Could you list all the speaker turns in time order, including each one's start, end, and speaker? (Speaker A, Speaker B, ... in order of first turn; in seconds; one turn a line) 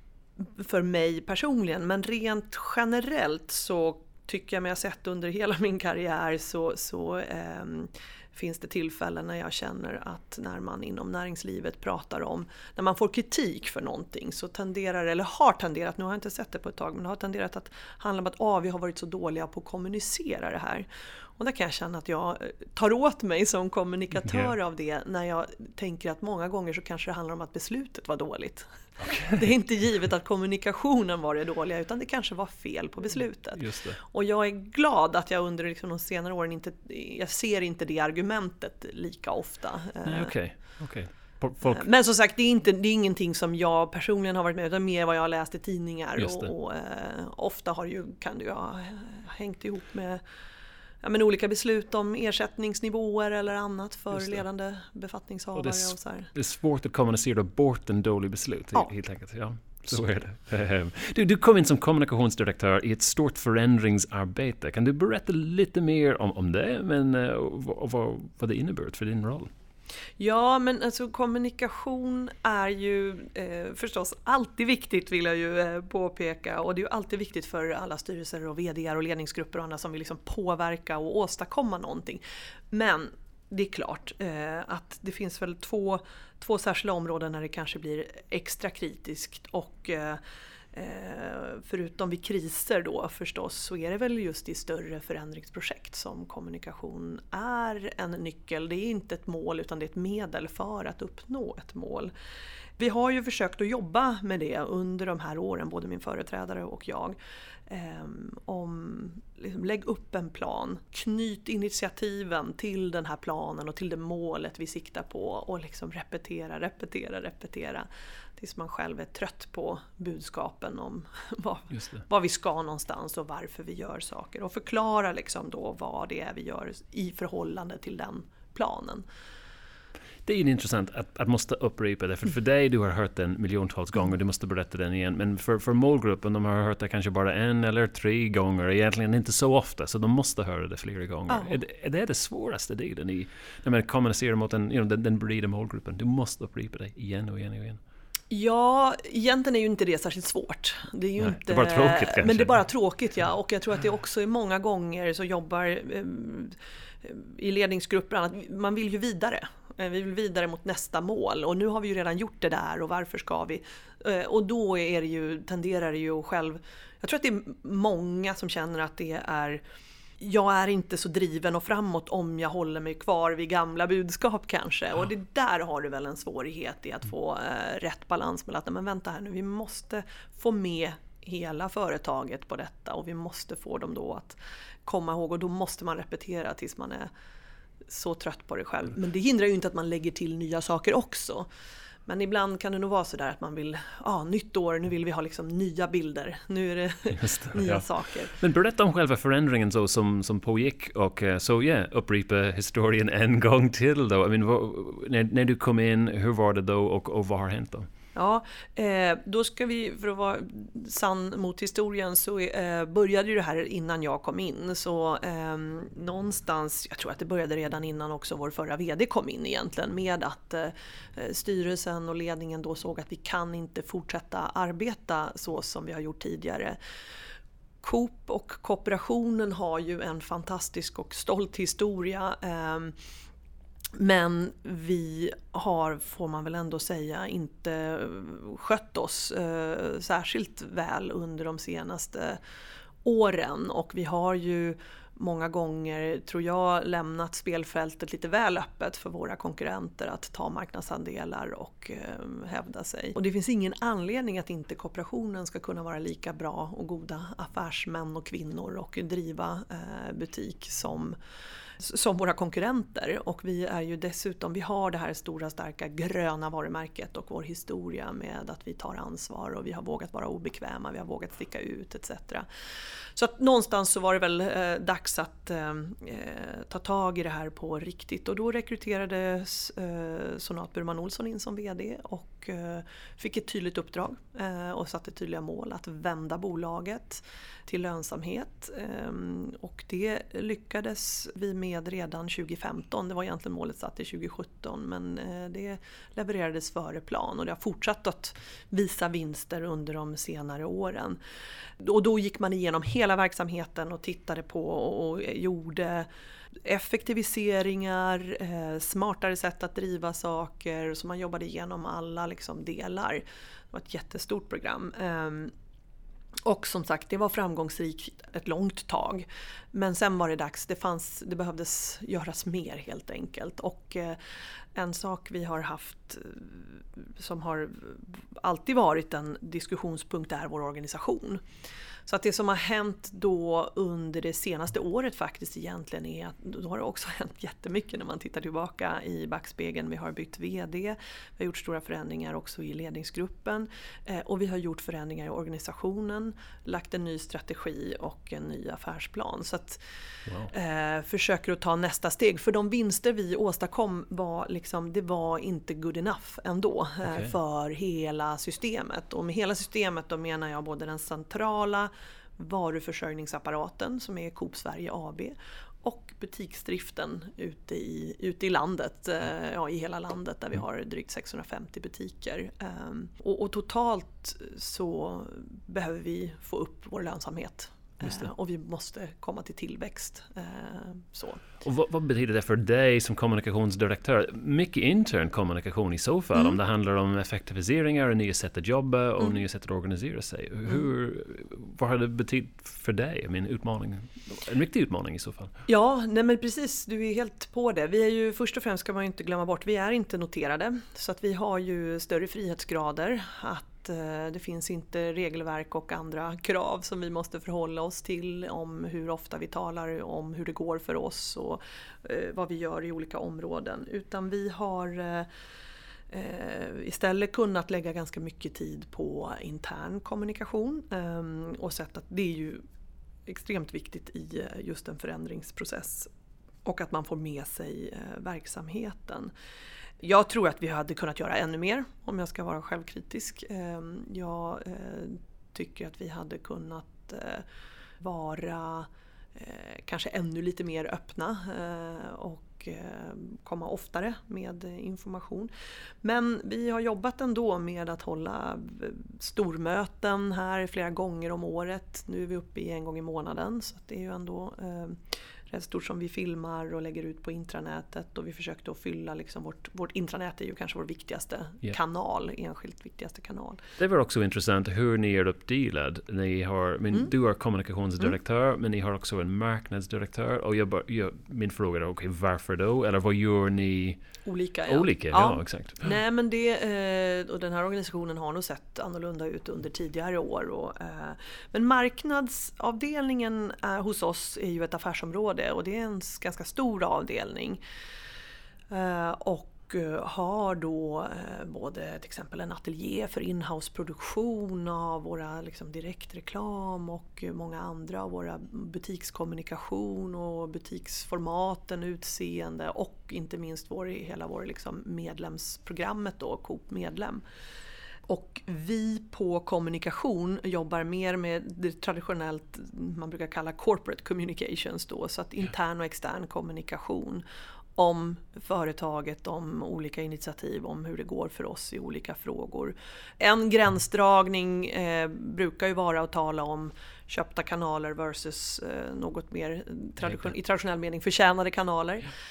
Speaker A: 0.4-20.9
Speaker A: 21.4-40.3
Speaker B: 24.3-24.5
Speaker B: 29.0-29.5
Speaker B: 33.5-34.0
Speaker B: 40.0-41.8
Speaker A: 41.6-50.2
Speaker B: 46.2-46.5
Speaker A: 51.0-56.3
Speaker B: 55.5-69.5
Speaker A: 70.2-90.2
Speaker A: 90.7-102.1
Speaker A: 102.8-107.2
Speaker A: 107.7-129.0
Speaker B: 121.7-122.0
Speaker B: 130.2-147.8
Speaker A: 141.3-141.5
Speaker A: 148.3-169.6
Speaker B: 151.2-152.6
Speaker A: 170.2-187.1
Speaker A: 187.9-191.5
Speaker A: 192.1-198.3
Speaker B: 197.2-207.8
Speaker A: 208.2-226.8
Speaker A: 227.8-232.9
Speaker A: 234.0-242.4
Speaker A: 243.0-261.1
Speaker A: 261.8-272.4
Speaker A: 273.1-301.2
Speaker A: 301.8-306.1
Speaker A: 306.6-315.5
Speaker A: 316.4-324.2
Speaker A: 324.8-331.4
Speaker A: 332.1-349.8
Speaker A: 350.5-381.4
Speaker B: 357.1-357.3
Speaker B: 378.0-378.3
Speaker B: 381.6-395.5
Speaker A: 395.7-415.3
Speaker A: 416.1-422.6
Speaker A: 423.2-426.1
Speaker A: 426.6-429.3
Speaker A: 430.0-437.4
Speaker A: 438.0-445.5
Speaker A: 446.0-455.0
Speaker A: 455.5-463.6
Speaker B: 463.8-474.0
Speaker A: 474.2-487.6
Speaker B: 474.7-475.8
Speaker A: 488.7-507.2
Speaker A: 508.1-517.2
Speaker A: 517.8-532.1